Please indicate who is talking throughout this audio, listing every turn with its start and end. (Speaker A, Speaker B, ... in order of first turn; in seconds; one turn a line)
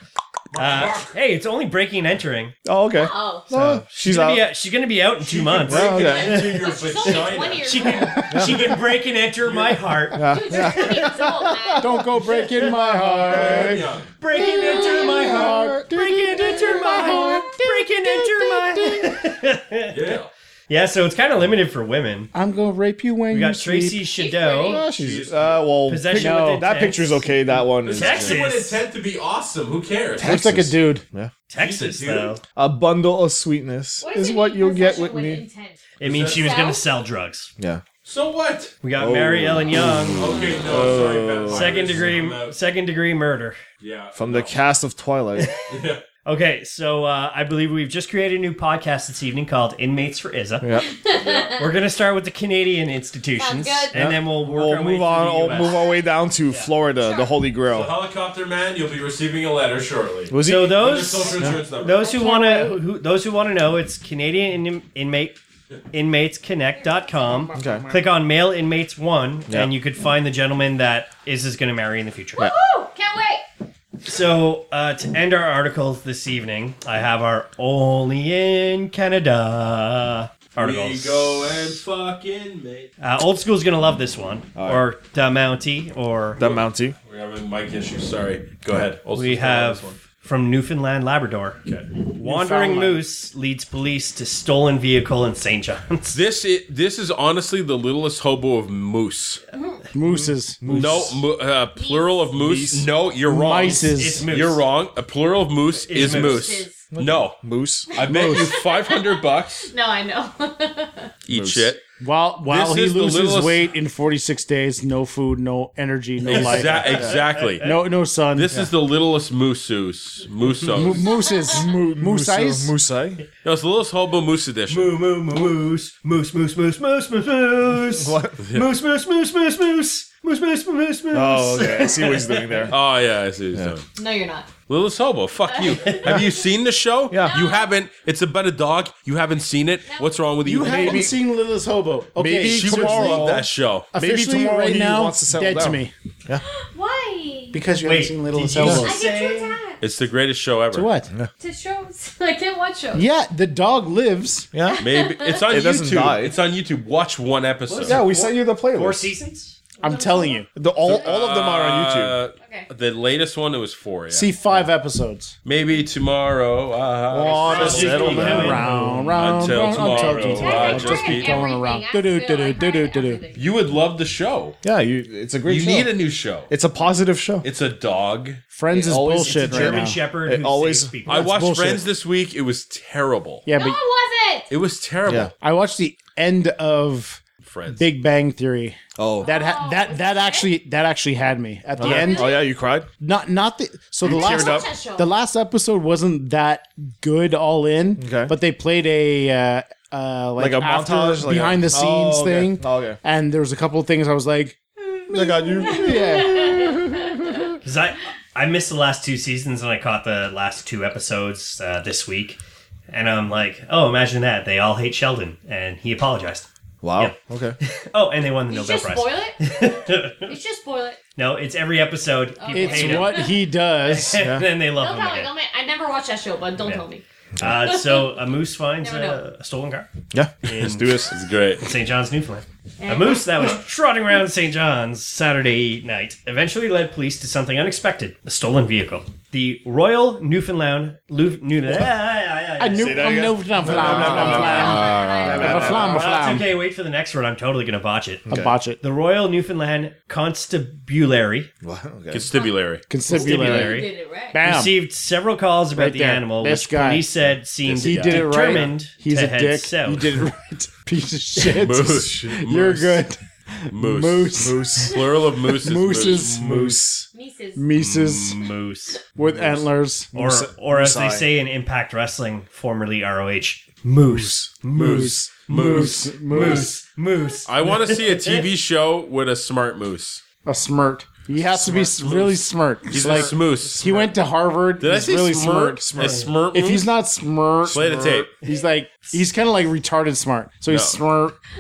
Speaker A: 0.5-1.1
Speaker B: 0.6-2.5
Speaker C: 2.6-4.5
Speaker D: 3.0-3.5
Speaker B: 3.5-11.1
Speaker A: 5.2-8.7
Speaker C: 5.7-6.4
Speaker D: 6.0-8.2
Speaker C: 8.3-8.7
Speaker A: 9.4-10.0
Speaker C: 10.1-19.1
Speaker D: 10.2-12.1
Speaker E: 11.8-13.8
Speaker A: 13.3-14.1
Speaker B: 14.2-22.3
Speaker E: 14.7-15.9
Speaker D: 16.9-17.4
Speaker A: 19.9-20.3
Speaker E: 22.3-24.1
Speaker B: 23.3-24.8
Speaker D: 24.1-24.9
Speaker C: 24.6-28.4
Speaker A: 24.9-25.7
Speaker B: 25.9-27.3
Speaker E: 26.1-26.7
Speaker A: 27.8-30.3
Speaker B: 27.8-28.8
Speaker C: 30.2-31.3
Speaker E: 30.2-31.0
Speaker B: 31.5-32.4
Speaker A: 31.6-32.4
Speaker C: 32.6-35.4
Speaker D: 34.0-36.8
Speaker B: 36.0-37.5
Speaker A: 36.0-36.6
Speaker A: 38.0-38.8
Speaker B: 38.8-40.4
Speaker C: 39.0-41.9
Speaker A: 40.2-42.6
Speaker B: 41.5-43.6
Speaker A: 43.8-44.6
Speaker C: 44.1-45.5
Speaker B: 45.4-45.7
Speaker A: 45.7-46.0
Speaker B: 46.2-50.7
Speaker C: 50.6-50.9
Speaker D: 50.8-51.7
Speaker A: 51.1-51.6
Speaker B: 51.6-55.8
Speaker D: 53.4-54.0
Speaker C: 53.9-58.0
Speaker D: 57.0-57.4
Speaker A: 57.7-62.0
Speaker C: 60.3-60.9
Speaker B: 60.4-65.4
Speaker D: 61.4-62.8
Speaker B: 65.9-72.5
Speaker D: 66.8-67.1
Speaker E: 67.2-68.1
Speaker C: 67.6-67.9
Speaker D: 72.4-73.4
Speaker B: 74.0-81.8
Speaker A: 80.6-82.9
Speaker B: 83.0-86.5
Speaker C: 84.6-84.8
Speaker C: 86.4-87.0
Speaker A: 86.4-90.0
Speaker B: 89.2-91.6
Speaker B: 92.2-96.2
Speaker E: 92.2-93.0
Speaker A: 96.1-99.4
Speaker D: 99.5-99.8
Speaker E: 99.9-101.1
Speaker C: 100.0-101.2
Speaker A: 100.7-107.4
Speaker D: 101.8-102.3
Speaker C: 102.4-102.9
Speaker E: 103.3-104.3
Speaker B: 103.9-104.6
Speaker B: 105.8-106.6
Speaker D: 106.0-106.8
Speaker C: 106.9-108.1
Speaker A: 107.9-109.7
Speaker D: 107.9-111.1
Speaker A: 111.3-111.8
Speaker C: 111.3-111.8
Speaker E: 112.0-118.7
Speaker A: 112.5-113.7
Speaker A: 116.2-117.7
Speaker B: 116.3-117.7
Speaker C: 116.9-117.2
Speaker A: 118.3-121.1
Speaker E: 120.7-122.7
Speaker D: 121.0-121.6
Speaker C: 121.5-123.2
Speaker A: 123.4-125.0
Speaker B: 124.7-132.7
Speaker C: 127.9-128.4
Speaker A: 128.4-128.7
Speaker C: 131.1-132.8
Speaker A: 132.7-133.8
Speaker D: 134.0-134.5
Speaker A: 134.7-141.1
Speaker D: 135.5-136.2
Speaker C: 137.1-137.4
Speaker D: 137.2-137.7
Speaker D: 139.9-140.1
Speaker E: 140.4-145.9
Speaker C: 140.6-141.2
Speaker C: 142.2-146.4
Speaker A: 142.4-143.9
Speaker D: 146.4-147.6
Speaker E: 147.5-149.0
Speaker B: 147.8-149.6
Speaker D: 148.6-149.8
Speaker A: 149.8-150.9
Speaker E: 150.7-151.1
Speaker D: 151.4-153.1
Speaker E: 152.9-154.5
Speaker C: 154.5-154.8
Speaker D: 154.7-155.5
Speaker A: 154.8-158.0
Speaker C: 155.5-156.4
Speaker B: 157.7-159.6
Speaker C: 157.8-159.1
Speaker E: 159.8-160.5
Speaker D: 159.8-161.1
Speaker C: 160.6-162.2
Speaker A: 160.8-164.7
Speaker D: 162.4-162.7
Speaker E: 164.1-165.3
Speaker A: 165.4-168.6
Speaker C: 167.1-168.8
Speaker B: 167.4-169.2
Speaker D: 167.5-168.1
Speaker E: 167.8-173.2
Speaker A: 169.1-171.4
Speaker D: 170.2-173.4
Speaker A: 173.3-174.6
Speaker C: 174.6-175.9
Speaker A: 175.4-176.5
Speaker C: 176.5-177.5
Speaker A: 177.4-178.4
Speaker E: 178.5-180.0
Speaker C: 178.7-181.0
Speaker B: 179.2-181.3
Speaker A: 181.1-183.5
Speaker E: 181.1-181.9
Speaker E: 183.5-183.8
Speaker D: 183.5-184.5
Speaker A: 184.5-185.3
Speaker C: 185.1-185.3
Speaker E: 185.4-187.2
Speaker A: 187.4-187.8
Speaker E: 187.8-192.4
Speaker C: 189.0-189.3
Speaker D: 189.2-190.5
Speaker C: 191.8-192.9
Speaker D: 191.8-192.4
Speaker E: 193.0-207.2
Speaker C: 194.0-194.7
Speaker D: 194.1-195.1
Speaker C: 198.0-198.3
Speaker C: 200.4-203.0
Speaker C: 205.1-206.6
Speaker D: 205.7-206.9
Speaker B: 207.6-212.4
Speaker B: 212.9-220.4
Speaker C: 216.8-217.6
Speaker D: 218.5-219.5
Speaker D: 220.2-221.0
Speaker B: 221.2-223.3
Speaker D: 222.4-223.4
Speaker E: 222.5-224.2
Speaker B: 223.8-225.3
Speaker C: 224.2-224.5
Speaker D: 224.8-227.0
Speaker B: 226.6-226.9
Speaker B: 227.4-229.9
Speaker D: 227.6-228.1
Speaker D: 228.8-229.2
Speaker C: 230.1-231.1
Speaker B: 230.4-231.1
Speaker A: 231.1-231.6
Speaker B: 231.6-248.3
Speaker D: 232.8-233.5
Speaker E: 242.6-246.5
Speaker C: 242.7-246.1
Speaker D: 244.1-245.8
Speaker C: 248.3-248.6
Speaker E: 248.3-248.8
Speaker B: 248.8-251.5
Speaker C: 251.6-252.3
Speaker A: 252.1-252.9
Speaker D: 252.3-254.4
Speaker E: 252.9-254.8
Speaker B: 253.1-253.9
Speaker B: 254.4-260.2
Speaker E: 255.8-257.1
Speaker A: 257.6-258.6
Speaker E: 257.8-266.8
Speaker A: 261.4-263.0
Speaker A: 263.7-266.8
Speaker C: 264.4-265.0
Speaker C: 266.4-267.1
Speaker D: 267.1-267.7
Speaker E: 267.6-268.4
Speaker A: 267.8-268.2
Speaker B: 268.0-269.0
Speaker E: 269.2-270.1
Speaker C: 269.3-271.3
Speaker B: 270.1-278.5
Speaker A: 274.8-276.7
Speaker E: 274.8-276.8
Speaker A: 277.5-280.2
Speaker E: 280.4-291.4
Speaker A: 281.6-284.1
Speaker A: 284.8-286.9
Speaker B: 286.0-286.3
Speaker A: 287.7-288.3
Speaker C: 287.7-288.3
Speaker A: 290.7-291.0